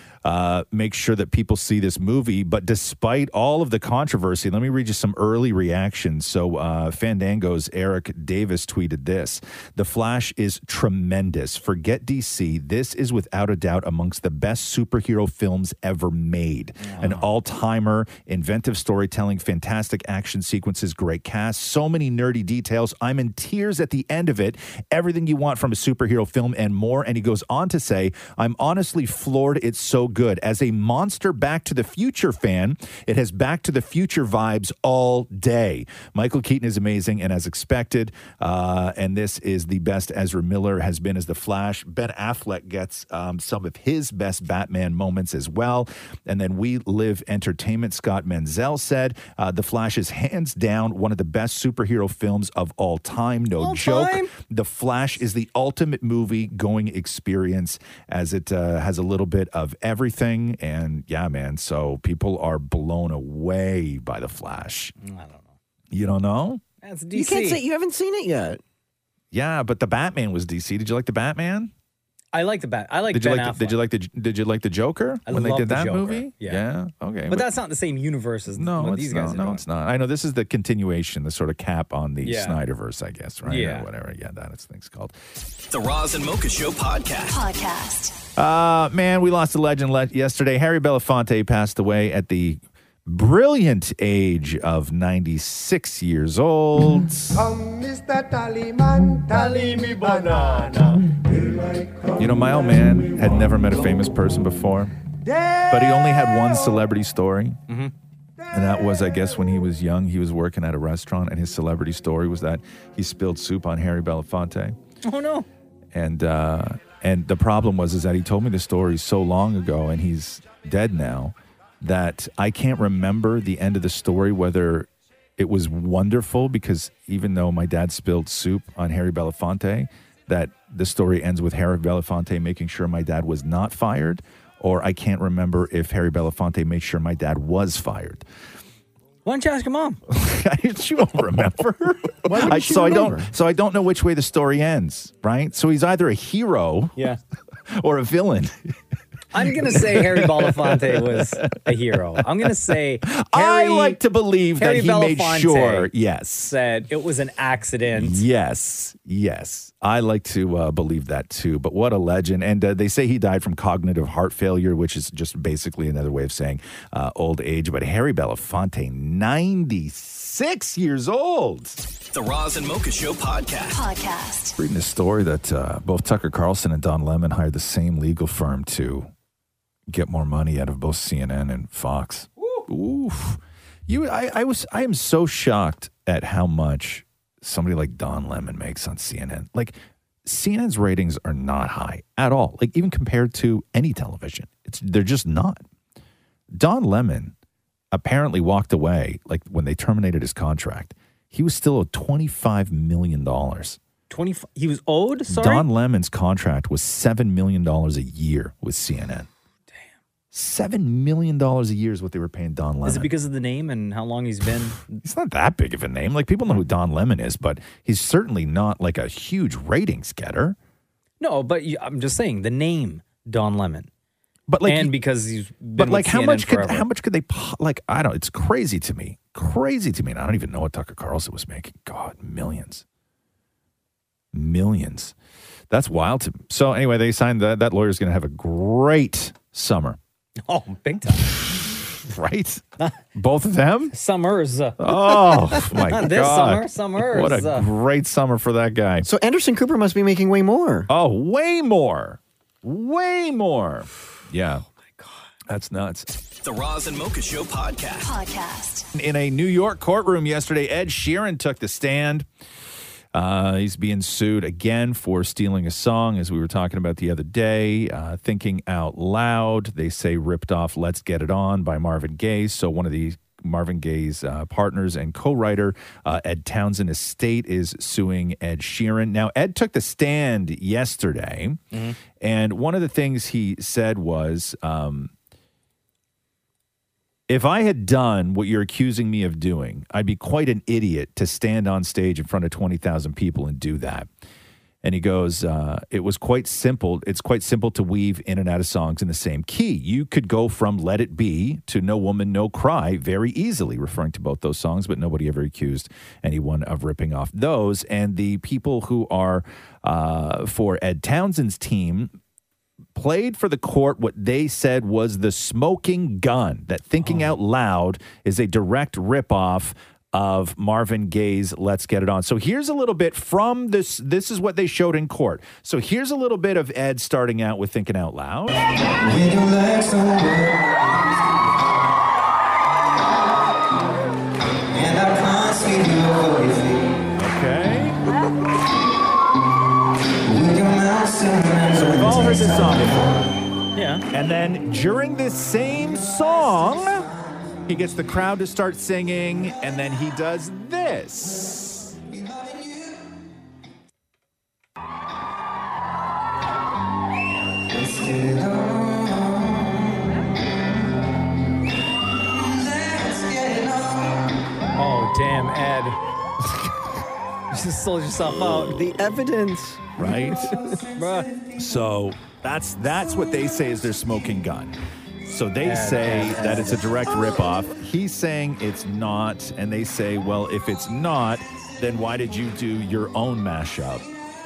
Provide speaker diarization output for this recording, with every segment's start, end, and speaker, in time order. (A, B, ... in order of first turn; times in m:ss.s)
0:00.2-1:04.9 A
0:16.8-0:17.3 B
0:53.6-0:54.3 B
1:05.0-1:05.5 B
1:05.9-1:06.6 A
1:06.8-1:07.6 B
1:07.1-1:08.6 C
1:09.3-1:11.7 A
1:12.3-1:13.8 B
1:13.1-1:17.5 A
1:15.3-1:16.6 B
1:17.3-1:19.6 B
1:18.5-1:25.1 A
1:22.2-1:22.6 B
1:23.4-1:23.9 B
1:25.7-1:28.2 D
1:28.4-1:37.4 A
1:37.3-1:43.4 E
1:42.2-1:44.9 A
1:45.2-1:46.8 E
1:45.7-1:47.6 A
1:48.5-1:54.8 A
1:55.0-1:55.5 B
1:55.9-2:18.2 A
2:19.2-2:20.0 B
2:20.1-2:26.9 A
2:22.2-2:23.3 C
2:27.7-2:28.5 A
2:29.3-2:34.0 B
2:29.7-2:31.1 A
2:33.1-2:36.5 A
2:34.6-2:35.9 B
2:36.5-2:38.2 B
2:38.0-2:51.8 A
2:52.1-2:54.5 D
2:54.6-2:59.1 A
2:59.9-3:15.6 A
3:16.5-3:17.3 A
3:17.9-3:23.8 A
3:24.1-3:25.6 B
3:25.3-3:29.3 A
3:30.3-3:33.1 A
3:32.8-3:35.0 B
3:35.0-3:40.6 A
3:41.2-3:43.9 B
3:44.5-3:44.9 A
3:44.6-3:46.9 B
3:45.8-3:52.8 A
3:54.3-3:55.1 A
3:55.7-4:00.0 A
4:00.5-4:01.4 B
4:01.6-4:02.6 A
4:03.1-4:03.9 A
4:03.9-4:07.7 B
4:04.8-4:09.1 A
4:09.0-4:10.9 C
4:10.9-4:14.6 A
4:15.5-4:16.1 A
4:16.4-4:18.9 D
4:18.9-4:22.2 A
4:23.1-4:41.6 A
4:41.7-4:42.0 B
4:42.2-4:45.1 A
4:47.3-4:54.1 A
4:54.8-5:12.1 A
5:12.9-5:28.6 A
5:17.0-5:17.4 B
5:37.2-5:38.0 A
5:41.7-5:43.2 A
5:43.7-5:44.0 B
5:44.1-5:47.1 A
5:47.6-5:51.9 A
6:04.8-6:06.0 B
6:07.5-6:08.9 B
6:08.6-6:10.8 C
6:10.0-6:10.5 A
6:10.9-6:11.3 B
6:11.5-6:24.1 A
6:15.6-6:16.9 B